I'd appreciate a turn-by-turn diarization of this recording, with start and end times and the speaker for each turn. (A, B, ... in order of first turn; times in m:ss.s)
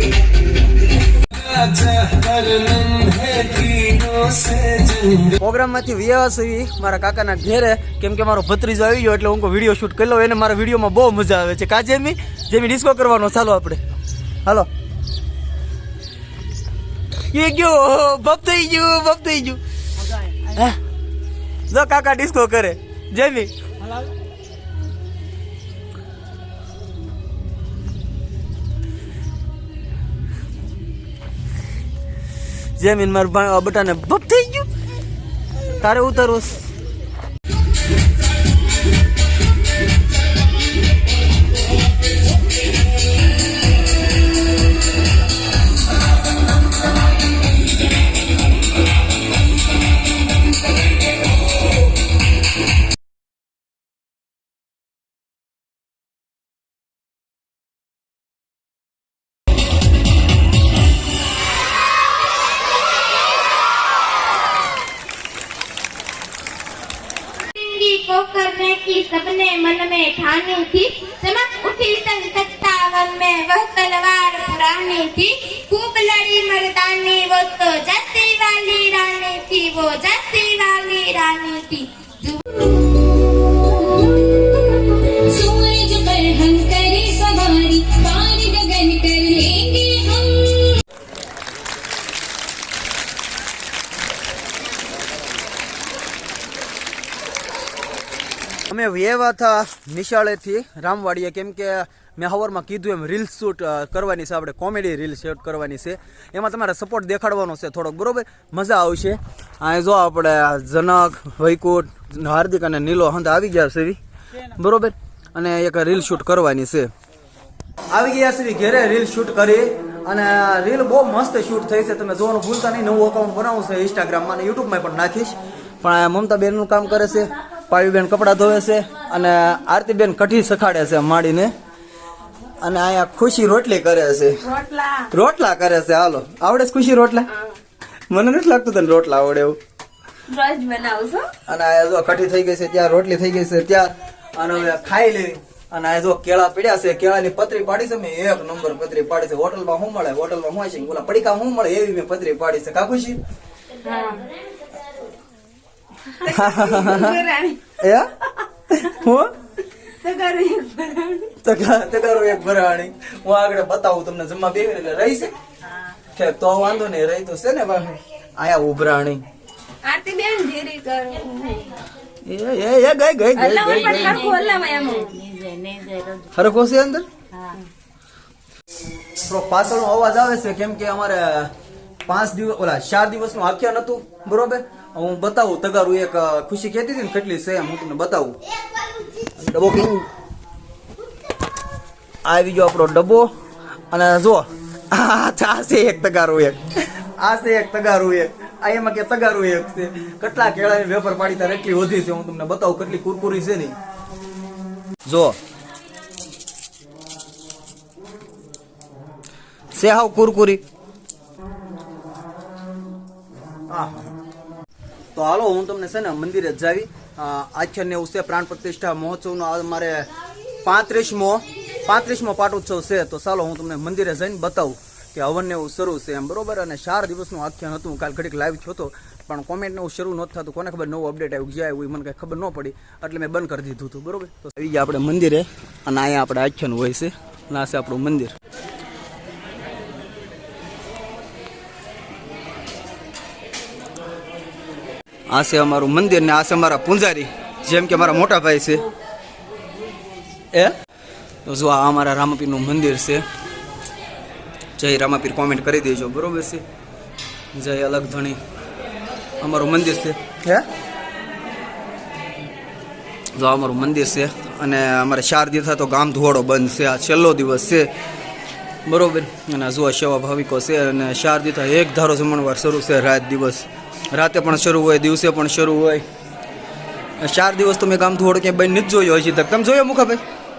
0:01.6-0:13.8 A
0:17.3-0:19.6 A
0:20.4-0:20.8 A
0:21.7-0:23.5 A
0:32.8-0:34.7 A
0:35.8-0:36.6 A
1:07.5-1:30.8 B
1:38.7-1:54.0 A
1:54.5-1:56.9 A
1:57.9-2:11.5 A
2:12.6-2:14.4 A
2:14.5-2:15.0 C
2:15.1-2:17.3 A
2:18.1-2:19.6 A
2:20.3-2:21.2 C
2:21.5-2:33.2 A
2:36.2-2:37.2 A
2:36.8-2:37.6 C
2:37.7-2:39.3 A
2:40.0-2:41.2 C
2:41.4-2:45.3 A
2:46.1-2:49.2 A
2:49.9-2:51.3 C
2:52.2-2:54.3 A
2:53.4-2:55.0 C
2:53.5-2:56.3 B
2:56.3-2:57.0 A
2:59.2-3:01.5 A
3:02.0-3:08.4 A
3:09.3-3:10.1 A
3:12.2-3:13.3 A
3:13.9-3:23.7 A
3:25.1-3:25.4 A
3:29.7-3:30.6 A
3:33.7-3:34.0 A
3:35.1-3:40.1 A
3:40.6-3:58.3 A
4:05.3-4:08.9 A
4:11.4-4:13.2 A
4:14.8-4:16.6 A
4:17.5-4:18.4 A
4:19.4-4:20.6 A
4:23.4-4:27.9 A
4:28.8-4:36.0 A
4:37.2-4:40.2 A